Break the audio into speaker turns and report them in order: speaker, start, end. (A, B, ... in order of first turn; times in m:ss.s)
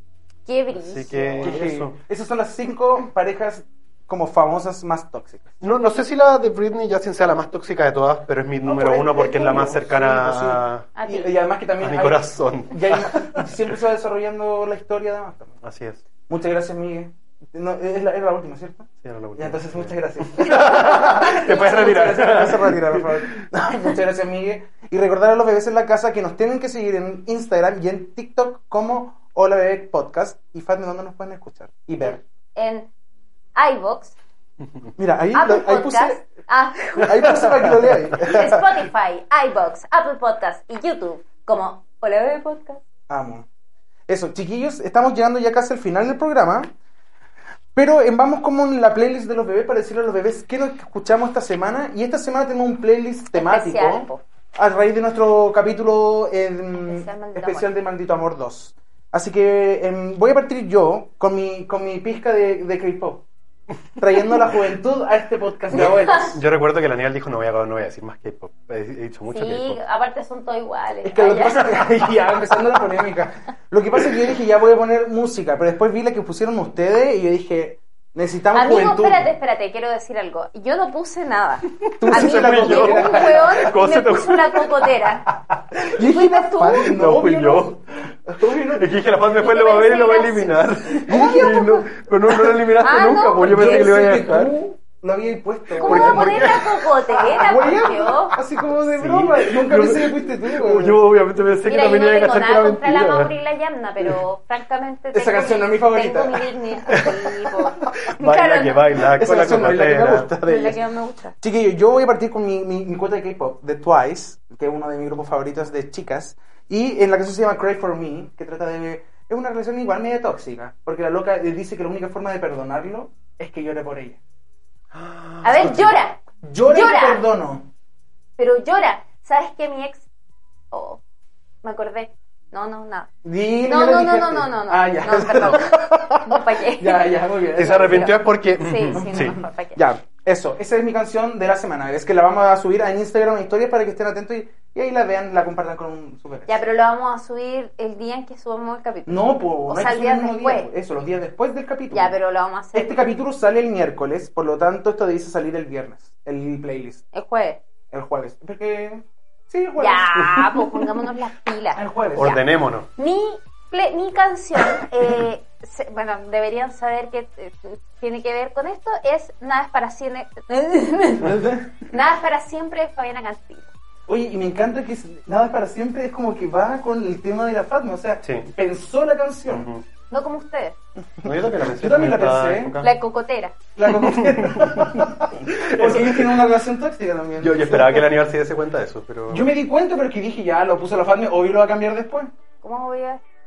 0:00.4-0:01.5 A
0:00.7-0:02.0 B
0:01.4-0:05.6 C
0:05.6-0:10.9 B
0:08.6-0:15.6 C
0:11.0-0:11.3 A
0:11.8-0:13.6 B
0:15.6-0:16.0 B
0:16.3-0:32.2 C
0:19.0-0:23.4 B
0:32.0-0:32.9 A
0:33.5-0:34.1 A
0:35.0-0:36.2 C
0:35.3-0:37.4 A
0:37.0-0:38.7 C
0:38.2-0:42.8 A
0:43.1-0:43.4 C
0:44.1-0:46.7 C
0:47.7-1:03.2 C
0:53.3-0:54.2 A
0:56.8-0:57.7 A
1:04.0-1:06.4 C
1:06.2-1:09.8 B
1:09.3-1:11.8 A
1:11.0-1:19.3 C
1:18.5-1:25.3 A
1:22.0-1:23.7 C
1:22.0-1:24.8 B
1:25.8-1:29.0 C
1:26.0-1:27.0 A
1:26.8-1:27.8 B
1:28.7-1:34.5 B
1:29.4-1:31.9 A
1:31.1-1:31.8 C
1:32.8-1:33.9 A
1:33.4-1:36.6 C
1:35.7-1:37.4 B
1:35.8-1:38.4 A
1:37.2-1:41.0 C
1:38.7-1:43.3 B
1:41.6-1:48.8 A
1:45.1-1:47.1 C
1:46.9-1:47.2 B
1:48.1-1:50.4 B
1:49.0-1:50.8 C
1:50.4-1:51.3 A
1:51.4-2:04.2 C
2:04.9-2:05.9 B
2:05.4-2:07.2 A
2:06.4-2:07.7 C
2:08.4-2:10.1 A
2:10.7-2:11.0 A
2:11.6-2:13.1 A
2:13.2-2:18.1 C
2:13.6-2:19.8 A
2:17.5-2:19.4 B
2:18.9-2:26.6 C
2:26.5-2:30.7 A
2:29.0-2:32.1 C
2:31.9-2:33.0 A
2:32.7-2:37.0 C
2:37.1-2:37.6 A
2:37.9-2:40.5 C
2:39.8-2:42.4 A
2:41.8-2:42.4 C
2:42.1-2:42.9 B
2:43.0-2:53.7 A
2:51.2-2:51.7 C
2:54.1-2:59.7 C
2:58.2-2:58.5 B
2:59.5-2:59.8 B
3:00.1-3:00.8 A
3:01.2-3:02.8 C
3:01.2-3:02.9 B
3:02.8-3:03.6 A
3:03.8-3:08.1 C
3:04.0-3:06.4 B
3:07.4-3:09.5 B
3:09.3-3:12.3 C
3:12.6-3:13.2 A